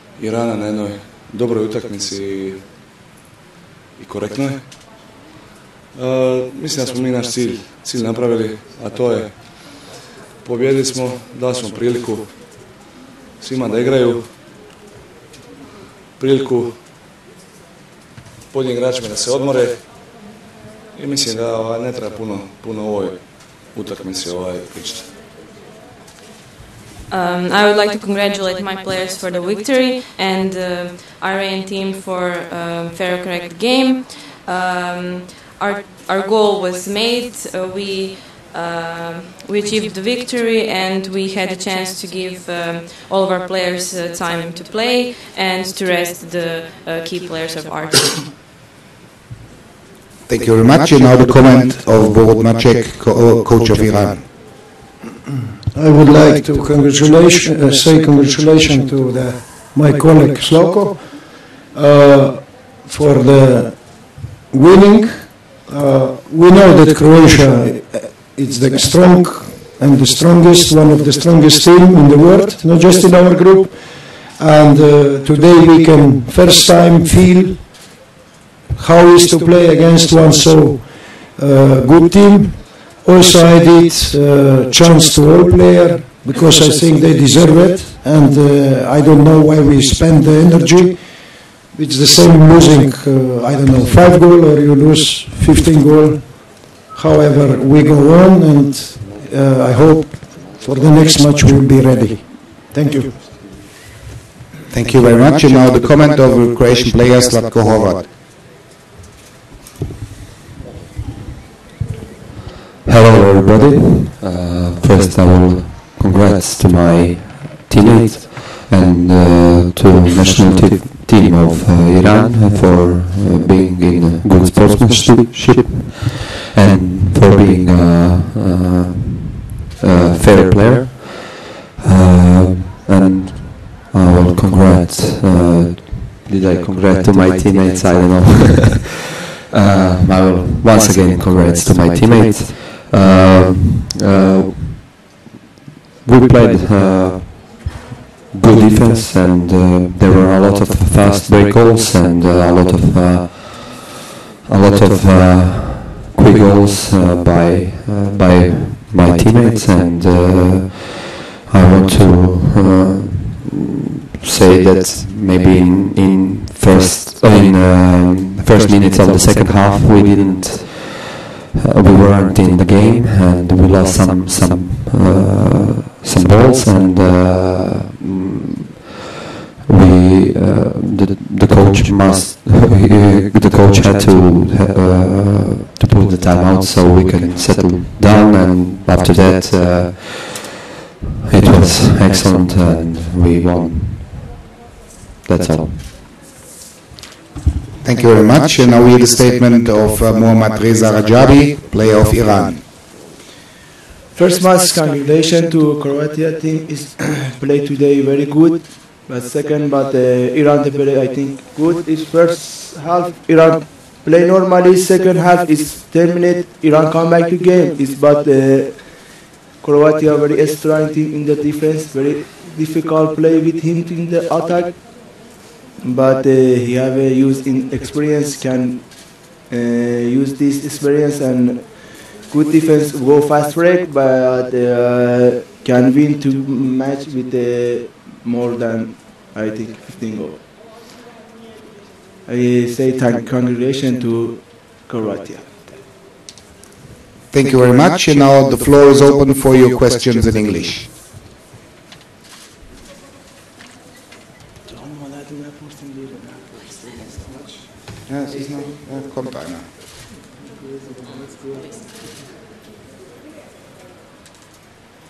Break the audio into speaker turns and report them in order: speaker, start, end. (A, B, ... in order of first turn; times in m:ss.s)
0:00.2-0:02.7 A
0:04.0-0:05.1 A
0:05.9-0:12.8 A
0:13.4-0:14.4 A
0:16.2-0:16.8 A
0:18.5-0:20.2 A
0:20.9-0:25.1 A
0:27.1-0:48.4 B
0:50.3-0:54.3 C
0:55.7-1:18.1 D
1:18.7-1:43.4 D
1:44.7-1:48.1 C
1:52.9-2:19.0 E
2:19.5-2:25.0 E
2:26.0-2:27.8 E
2:28.3-2:34.0 E
2:34.5-2:58.9 E
2:59.6-3:10.6 E
3:11.3-3:14.4 E
3:15.2-3:15.8 E
3:17.8-3:22.6 C
3:24.1-4:00.5 F
4:02.2-4:06.0 F
4:07.3-4:10.9 C
4:14.7-4:19.0 F
4:18.1-4:19.7 C
4:20.2-4:22.2 F